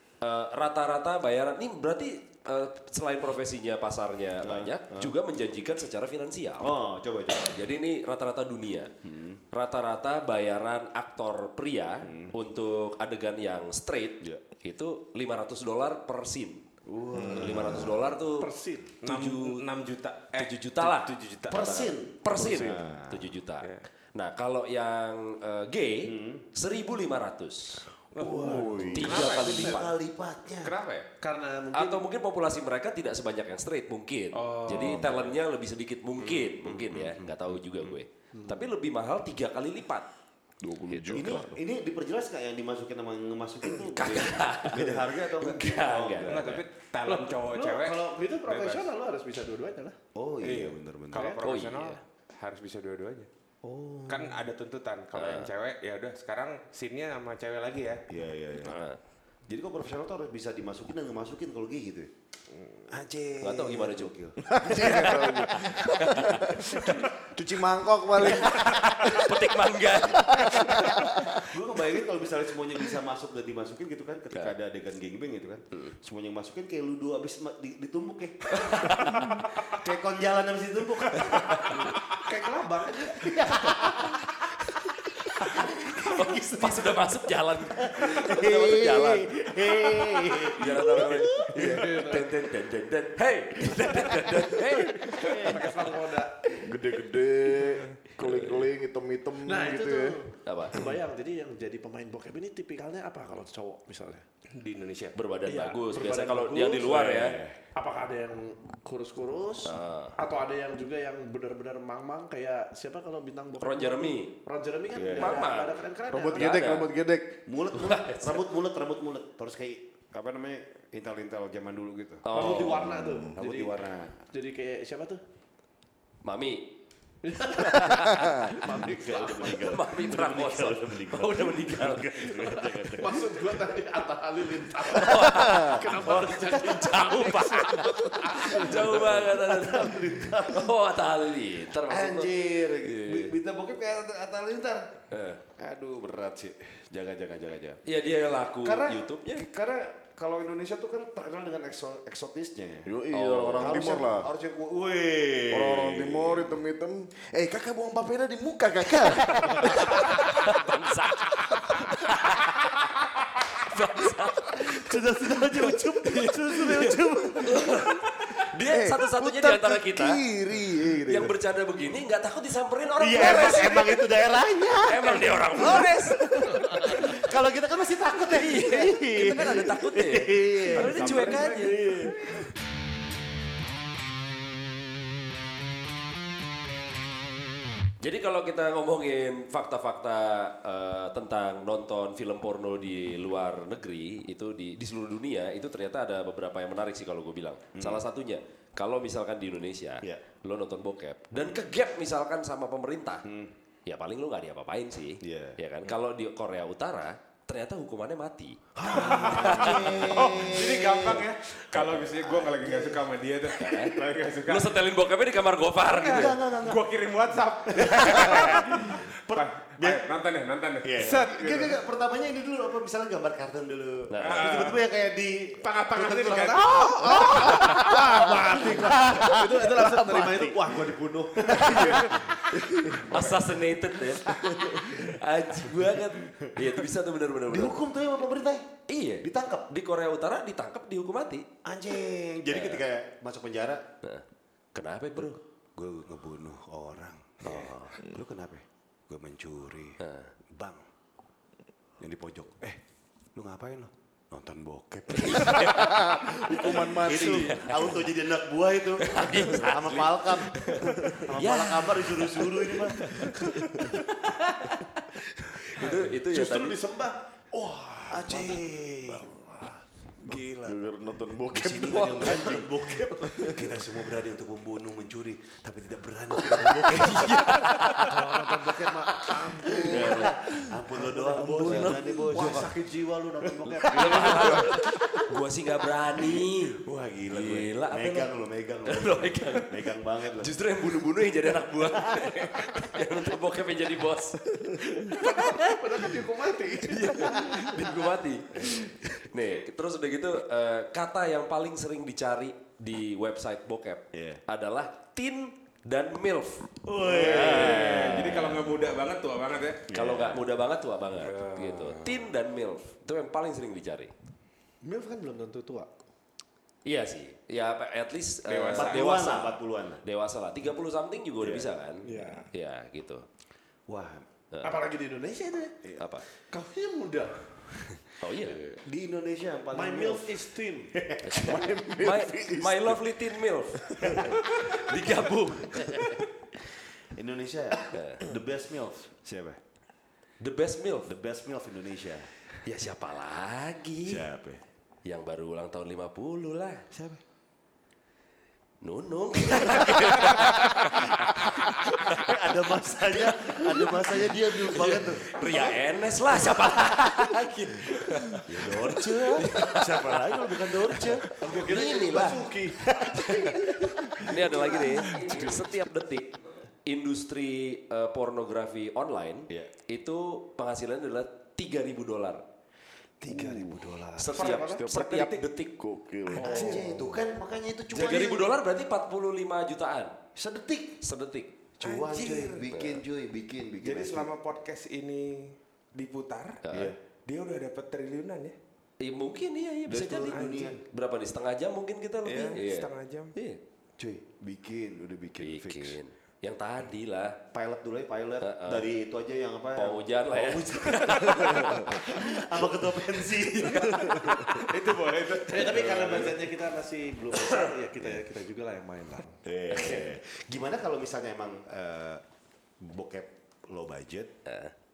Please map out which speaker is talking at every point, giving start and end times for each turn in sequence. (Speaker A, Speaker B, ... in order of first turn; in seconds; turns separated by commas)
Speaker A: 0.2-6.7, Speaker B: 4.4-5.1, Speaker B: 6.6-7.6, Speaker A: 7.5-8.9, Speaker B: 9.1-9.4, Speaker A: 9.5-16.6, Speaker B: 12.0-12.3, Speaker B: 16.9-18.0, Speaker C: 17.1-17.6, Speaker A: 17.3-18.5, Speaker D: 18.2-19.0, Speaker A: 19.0-19.6, Speaker E: 19.0-21.8, Speaker A: 20.3-27.9, Speaker B: 21.5-23.3, Speaker B: 26.1-26.4, Speaker E: 28.1-29.7, Speaker C: 28.2-29.3, Speaker D: 28.2-29.9, Speaker B: 28.4-30.8, Speaker A: 28.9-29.9, Speaker E: 30.6-31.1, Speaker D: 31.2-32.1, Speaker A: 31.7-40.1, Speaker E: 34.3-35.3, Speaker B: 36.6-37.3, Speaker D: 38.4-38.7, Speaker C: 40.6-41.6, Speaker A: 40.9-41.4, Speaker B: 41.1-46.6, Speaker A: 43.9-46.6, Speaker E: 46.2-48.9, Speaker D: 47.0-50.0, Speaker B: 50.1-51.4, Speaker E: 50.4-53.3, Speaker D: 51.1-51.4, Speaker A: 51.4-52.0, Speaker B: 53.6-54.4, Speaker E: 54.1-58.0, Speaker A: 55.1-55.5, Speaker B: 58.1-58.8, Speaker A: 58.6-59.0, Speaker B: 59.5-62.1, Speaker B: 62.6-65.1, Speaker A: 63.4-64.1, Speaker C: 64.4-69.2, Speaker A: 64.7-67.0, Speaker A: 68.2-71.0, Speaker B: 68.7-69.2, Speaker C: 70.2-71.5, Speaker B: 70.7-81.9, Speaker A: 78.6-79.3, Speaker A: 81.3-81.9, Speaker D: 81.8-83.4, Speaker B: 83.0-84.5, Speaker B: 85.3-87.0, Speaker A: 86.0-89.3, Speaker B: 87.8-91.8, Speaker A: 90.4-95.6, Speaker D: 91.5-92.4, Speaker D: 95.1-96.7, Speaker C: 96.6-100.2, Speaker A: 98.2-98.7, Speaker D: 99.5-104.2, Speaker A: 100.5-100.8, Speaker E: 104.5-105.2, Speaker A: 105.1-107.4, Speaker D: 105.5-107.1, Speaker B: 106.9-107.6, Speaker D: 107.8-116.7, Speaker A: 109.7-110.2, Speaker A: 113.6-114.3, Speaker B: 114.9-115.5, Speaker A: 115.1-116.9, Speaker C: 116.1-117.4, Speaker B: 117.5-124.2, Speaker A: 117.7-118.5, Speaker A: 122.2-123.0, Speaker D: 122.3-123.8, Speaker C: 122.9-123.3, Speaker D: 124.3-125.2, Speaker A: 126.2-126.7, Speaker D: 127.2-129.8, Speaker A: 127.6-128.6, Speaker B: 128.6-133.2, Speaker A: 129.5-133.2, Speaker D: 133.0-138.8, Speaker A: 134.9-143.4, Speaker B: 136.0-140.8, Speaker B: 141.8-144.9, Speaker A: 145.1-145.4, Speaker B: 145.6-147.8, Speaker A: 147.8-149.5, Speaker B: 148.6-156.6, Speaker C: 152.8-154.3, Speaker A: 153.1-153.9, Speaker C: 155.5-160.3, Speaker B: 159.4-160.2, Speaker A: 159.4-162.9, Speaker A: 163.4-164.9, Speaker B: 164.5-167.9, Speaker A: 165.6-170.2, Speaker C: 168.7-171.4, Speaker A: 171.1-174.1, Speaker B: 173.0-182.5, Speaker A: 174.9-177.2, Speaker A: 178.3-182.1, Speaker E: 180.7-181.8, Speaker A: 188.0-203.2, Speaker B: 197.8-198.0, Speaker B: 203.2-203.5, Speaker A: 203.9-210.1, Speaker B: 205.2-205.6, Speaker B: 208.8-211.3, Speaker E: 208.9-214.7, Speaker A: 211.7-212.1, Speaker B: 212.0-213.0, Speaker A: 213.6-216.4, Speaker B: 216.0-216.9, Speaker E: 216.0-221.8, Speaker B: 217.7-220.0, Speaker B: 220.8-230.6, Speaker A: 224.1-224.6, Speaker E: 224.2-224.8, Speaker E: 225.6-227.5, Speaker D: 226.3-232.4, Speaker B: 231.3-232.3, Speaker E: 231.8-232.1, Speaker C: 232.6-233.1, Speaker A: 233.0-237.8, Speaker B: 234.3-235.1, Speaker B: 237.5-238.7, Speaker A: 238.9-241.5, Speaker B: 239.2-239.7, Speaker B: 241.7-243.9, Speaker A: 242.5-242.8, Speaker A: 244.0-245.4, Speaker B: 245.8-250.9, Speaker A: 247.4-247.8, Speaker A: 250.0-250.3, Speaker B: 252.0-252.8, Speaker B: 253.3-263.4, Speaker A: 255.2-255.9, Speaker C: 255.6-257.9, Speaker A: 257.1-258.0, Speaker A: 259.0-266.8, Speaker D: 265.8-268.6, Speaker B: 268.1-269.3, Speaker C: 269.2-269.6, Speaker D: 270.2-270.8, Speaker C: 270.3-273.7, Speaker B: 271.5-277.7, Speaker A: 276.8-278.2, Speaker D: 278.0-280.4, Speaker B: 278.6-282.9, Speaker A: 279.9-280.4, Speaker D: 280.9-284.9, Speaker A: 281.6-281.9, Speaker B: 283.4-285.3, Speaker A: 283.8-288.3, Speaker B: 286.2-290.5, Speaker A: 288.9-289.8, Speaker A: 290.4-295.8, Speaker D: 295.1-297.5, Speaker A: 296.8-308.5, Speaker B: 304.1-304.4, Speaker B: 306.8-308.5, Speaker E: 307.1-309.9, Speaker B: 309.9-310.5, Speaker A: 309.9-314.1, Speaker E: 311.2-312.1, Speaker D: 314.8-315.9, Speaker A: 316.9-323.3, Speaker E: 318.5-319.3, Speaker B: 318.7-320.0, Speaker B: 321.4-321.7, Speaker D: 322.0-322.5, Speaker B: 323.9-324.3, Speaker A: 324.5-324.8, Speaker D: 324.6-325.8, Speaker A: 326.0-326.2, Speaker D: 326.4-327.5, Speaker A: 328.2-328.7, Speaker B: 328.6-330.4, Speaker D: 329.7-330.9, Speaker B: 330.9-331.7, Speaker A: 331.2-336.2, Speaker C: 331.3-333.1, Speaker C: 333.8-334.3, Speaker B: 337.1-339.6, Speaker A: 337.9-338.2, Speaker A: 340.4-341.1, Speaker B: 341.1-342.3, Speaker A: 342.6-344.3, Speaker B: 344.1-344.6, Speaker A: 345.1-346.9, Speaker B: 346.9-347.2, Speaker A: 348.8-352.3, Speaker B: 350.2-355.6, Speaker A: 353.2-353.9, Speaker A: 354.7-362.4, Speaker B: 358.5-365.6, Speaker D: 361.4-363.8, Speaker A: 363.1-372.4, Speaker D: 364.7-365.3, Speaker B: 373.2-374.4, Speaker D: 373.2-374.9, Speaker A: 374.2-375.7, Speaker C: 374.4-377.0, Speaker D: 376.4-377.1, Speaker B: 376.4-378.5, Speaker A: 377.9-380.2, Speaker B: 380.4-381.0, Speaker A: 381.0-381.5, Speaker B: 381.8-384.3, Speaker E: 381.8-382.7, Speaker A: 382.7-383.0, Speaker E: 383.8-386.6, Speaker A: 386.6-386.9, Speaker B: 386.7-387.0, Speaker E: 387.3-388.6, Speaker A: 389.0-393.6, Speaker B: 389.9-390.8, Speaker E: 390.0-390.8, Speaker E: 392.2-393.3, Speaker B: 394.0-396.0, Speaker A: 395.4-397.4, Speaker B: 397.5-404.7, Speaker A: 398.4-398.9, Speaker A: 399.8-402.3, Speaker A: 403.4-404.6, Speaker E: 404.3-406.4, Speaker D: 405.5-409.4, Speaker B: 409.4-412.2, Speaker A: 409.7-410.1, Speaker B: 412.8-414.3, Speaker A: 414.4-414.7